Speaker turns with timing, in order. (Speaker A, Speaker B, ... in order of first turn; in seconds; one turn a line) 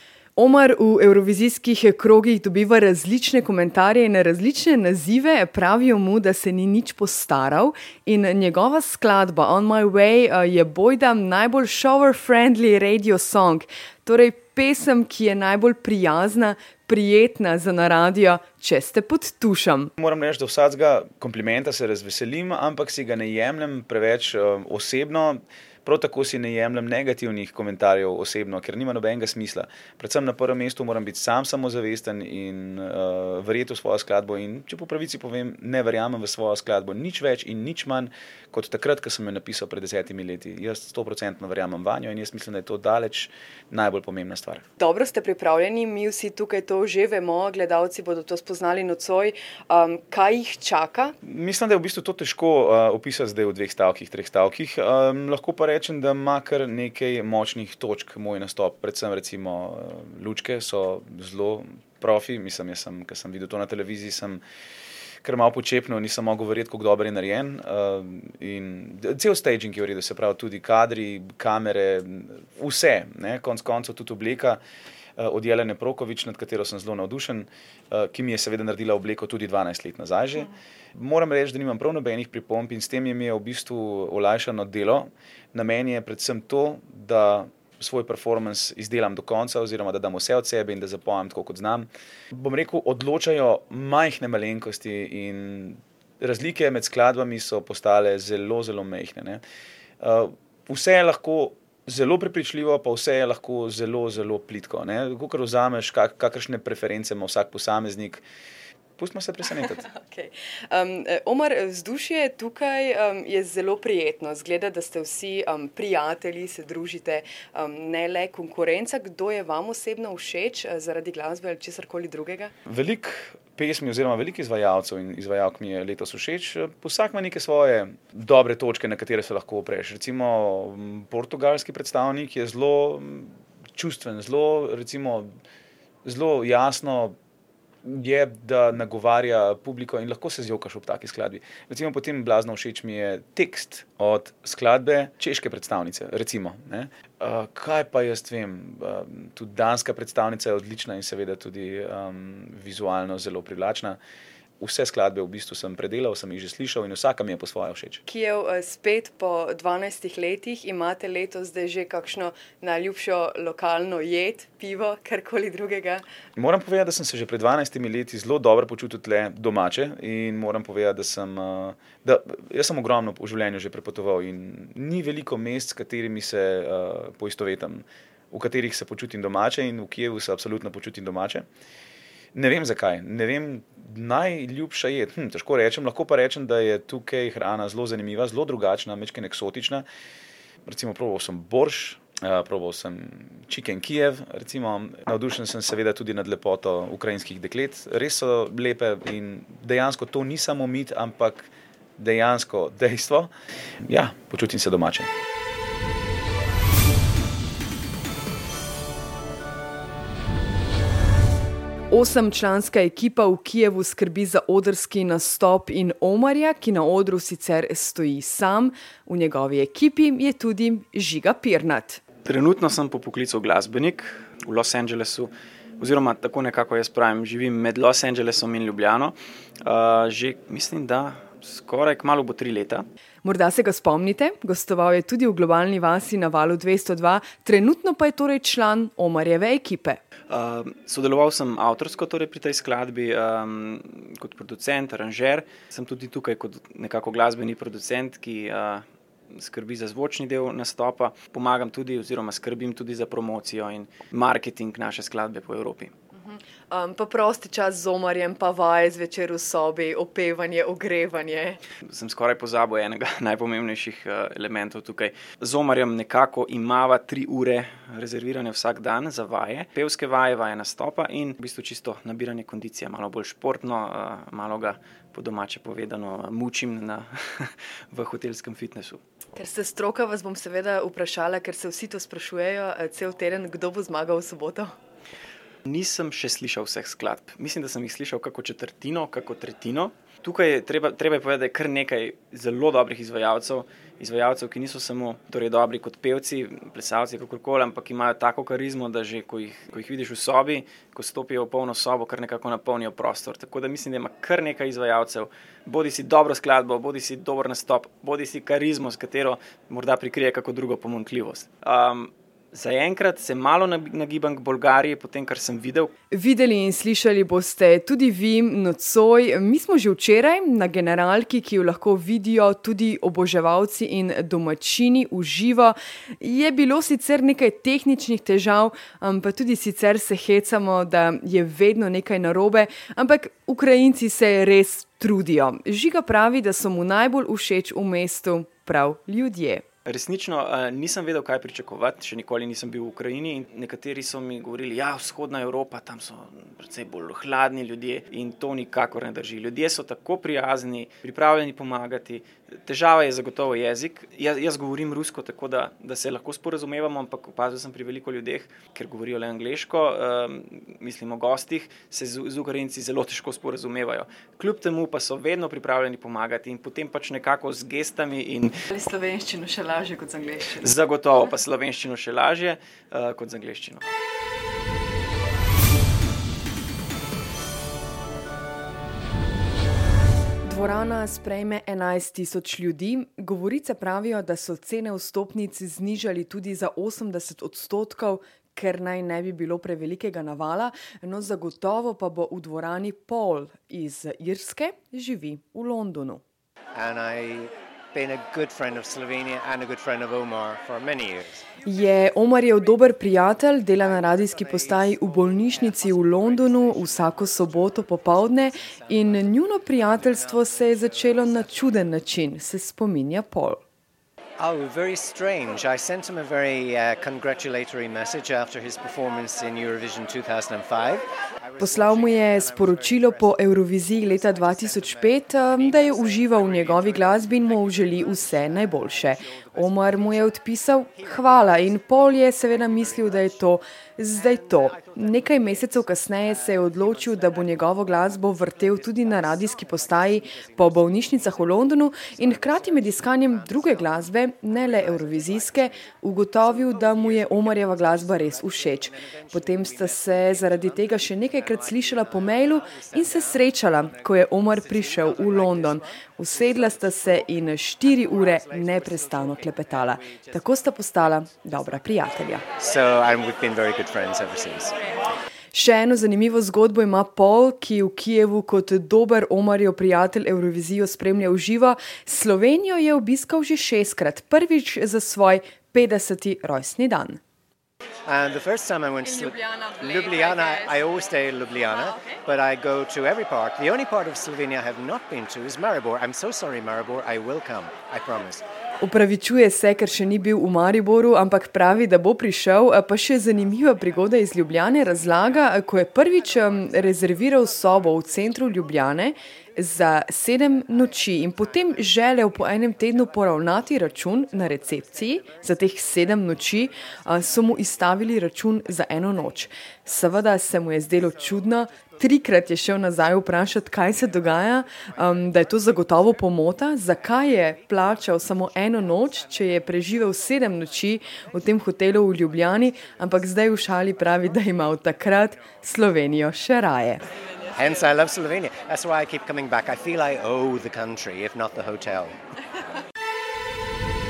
Speaker A: 0.3-19.9
Speaker B: 20.0-44.6
Speaker A: 44.8-51.1
Speaker B: 51.2-64.4
Speaker B: 65.2-74.6
Speaker B: 75.2-99.4
Speaker B: 100.0-108.2
Speaker B: 109.0-109.8
Speaker A: 109.8-122.5
Speaker B: 122.7-135.3
Speaker B: 136.0-137.2
Speaker B: 137.8-154.0
Speaker B: 154.6-158.0
Speaker A: 158.1-166.0
Speaker B: 166.3-181.4
Speaker B: 182.3-189.8
Speaker B: 190.7-203.3
Speaker B: 203.9-205.1
Speaker A: 211.9-222.0
Speaker C: 222.2-232.8
Speaker A: 233.2-240.0
Speaker C: 240.3-255.9
Speaker A: 256.1-261.6
Speaker C: 261.9-279.0
Speaker A: 279.3-284.7
Speaker C: 285.6-315.9
Speaker A: 316.1-339.6
Speaker C: 339.8-368.6
Speaker A: 368.7-370.7
Speaker C: 370.6-373.8
Speaker A: 380.4-396.2
Speaker D: 396.7-401.4
Speaker A: 401.6-413.6
Speaker D: 403.8-411.9
Speaker D: 414.4-433.5
Speaker A: 421.6-462.4
Speaker D: 434.1-460.6
Speaker D: 462.5-464.8
Speaker A: 465.5-477.2
Speaker D: 478.1-488.4
Speaker A: 479.4-480.4
Speaker A: 488.8-527.0
Speaker D: 527.5-532.2